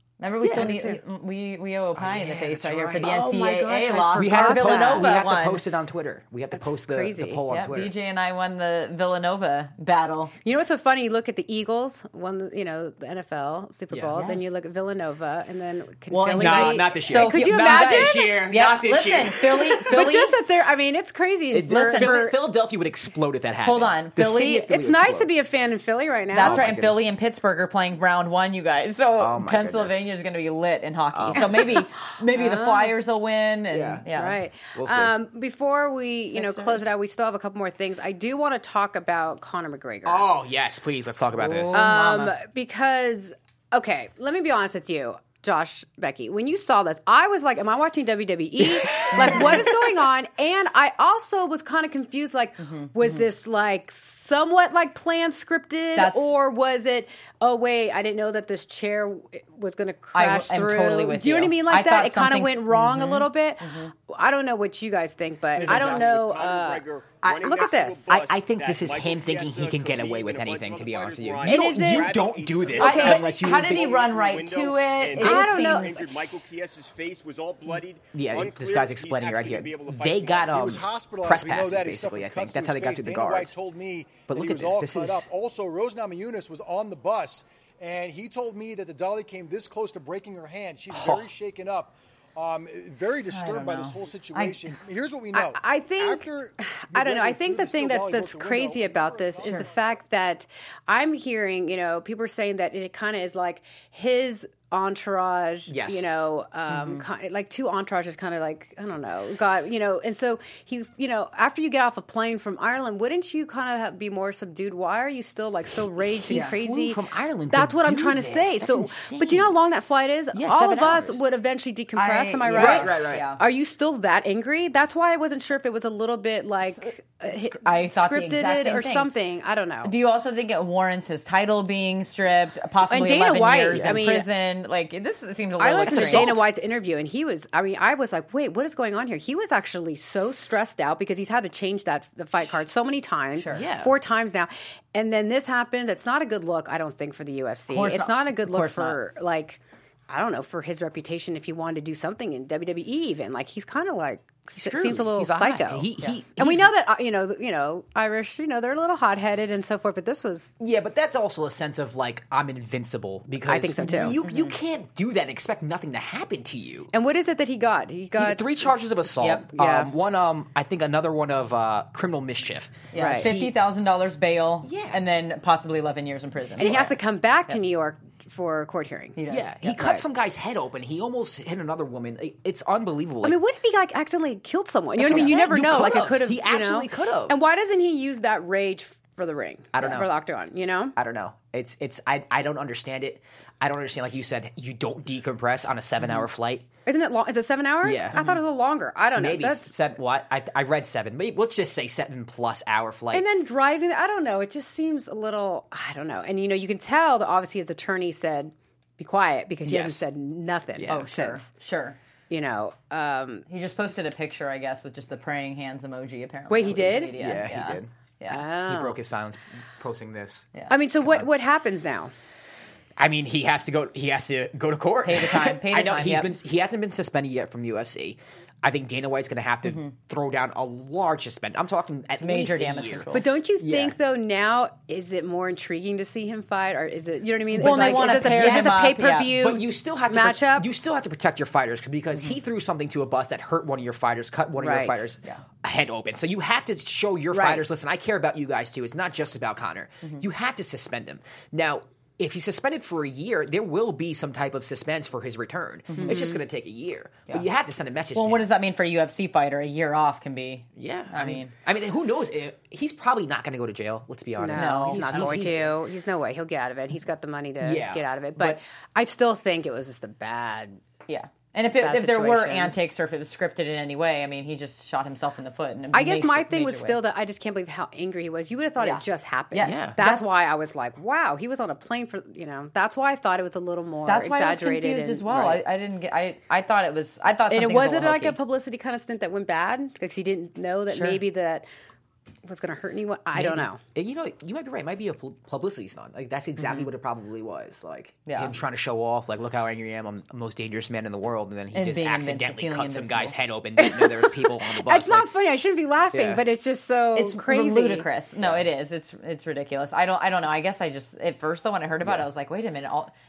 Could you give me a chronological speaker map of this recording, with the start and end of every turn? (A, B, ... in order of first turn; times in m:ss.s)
0:00.2-0:05.6 A
0:00.4-0:00.7 B
0:00.5-0:01.0 C
0:02.0-0:07.9 B
0:03.7-0:05.1 C
0:06.5-0:07.4 C
0:07.5-0:10.3 A
0:10.4-0:18.4 C
0:14.1-0:14.5 A
0:16.1-0:20.4 A
0:16.2-0:20.0 B
0:19.9-0:22.3 C
0:21.5-0:25.3 B
0:21.7-0:22.2 A
0:23.6-0:24.8 A
0:24.7-0:26.7 C
0:26.3-0:34.4 A
0:26.4-0:27.0 B
0:29.2-0:30.1 B
0:31.1-0:31.8 B
0:32.3-0:32.9 C
0:33.7-0:34.0 B
0:34.1-0:40.3 C
0:34.7-0:35.1 B
0:36.3-0:36.8 A
0:40.0-0:41.9 B
0:41.4-0:42.3 A
0:41.7-1:08.1 C
0:49.0-0:49.5 B
0:52.6-0:53.2 A
0:55.9-0:56.3 A
1:00.1-1:03.9 A
1:05.6-1:06.1 B
1:05.6-1:20.8 D
1:07.2-1:07.6 B
1:08.1-1:13.9 B
1:11.4-1:12.1 C
1:12.8-1:13.2 C
1:12.8-1:16.1 A
1:15.2-1:16.1 C
1:15.2-1:15.5 B
1:18.1-1:23.5 B
1:20.5-1:40.0 E
1:24.3-1:25.3 B
1:30.9-1:31.3 B
1:33.3-1:34.7 A
1:35.3-1:57.0 C
1:45.7-1:46.0 B
1:46.7-1:47.0 A
1:56.3-1:59.5 B
1:57.5-2:09.9 C
2:00.3-2:01.2 B
2:02.0-2:03.4 A
2:02.5-2:03.3 B
2:07.3-2:09.1 A
2:09.8-2:16.4 A
2:12.9-2:14.3 C
2:13.7-2:14.0 B
2:15.6-2:40.5 C
2:15.8-2:16.4 B
2:23.4-2:23.6 A
2:23.5-2:23.9 B
2:27.7-2:29.0 A
2:34.6-2:36.7 B
2:40.6-2:46.9 B
2:43.3-2:44.2 C
2:44.2-2:44.6 A
2:46.9-2:48.7 C
2:48.2-2:53.5 B
2:49.5-2:49.9 C
2:52.9-2:57.0 A
2:52.9-2:53.3 C
2:54.6-2:55.0 B
2:56.6-3:00.0 C
2:59.2-2:59.5 A
2:59.3-3:03.4 B
3:03.2-3:10.9 C
3:05.0-3:07.3 B
3:05.1-3:05.4 A
3:09.7-3:10.1 B
3:11.0-3:16.7 B
3:16.8-3:19.7 C
3:17.8-3:18.4 B
3:19.1-3:23.2 B
3:23.1-3:31.5 C
3:29.6-3:30.0 B
3:30.8-3:31.0 B
3:30.9-3:32.0 A
3:32.3-3:33.4 C
3:33.5-3:38.4 A
3:36.5-3:37.1 C
3:37.2-3:37.9 B
3:38.3-3:39.0 C
3:38.6-3:40.5 B
3:40.7-3:42.1 C
3:43.0-3:53.9 B
3:45.0-3:46.3 A
3:52.2-3:53.2 A
3:53.1-4:00.7 C
3:57.5-3:59.3 A
3:57.6-4:18.5 B
4:04.6-4:05.0 C
4:07.3-4:07.6 C
4:15.9-4:16.2 A
4:16.0-4:16.4 C
4:18.1-4:21.5 A
4:20.8-4:25.7 B
4:24.4-4:30.8 C
4:24.5-4:25.6 A
4:27.6-4:28.6 B
4:31.1-4:37.0 A
4:31.8-4:32.7 C
4:35.9-4:45.6 C
4:38.8-4:40.2 A
4:39.6-4:40.0 B
4:44.0-4:48.4 A
4:47.5-4:51.6 C
4:50.9-4:51.2 A
4:52.4-4:53.8 C
4:53.3-5:05.3 B
4:56.6-4:56.9 A
4:58.3-4:58.5 A
5:01.7-5:03.3 A
5:03.8-5:08.1 C
5:06.1-5:06.4 B
5:07.1-5:13.1 A
5:08.4-5:08.6 B
5:12.0-5:12.3 B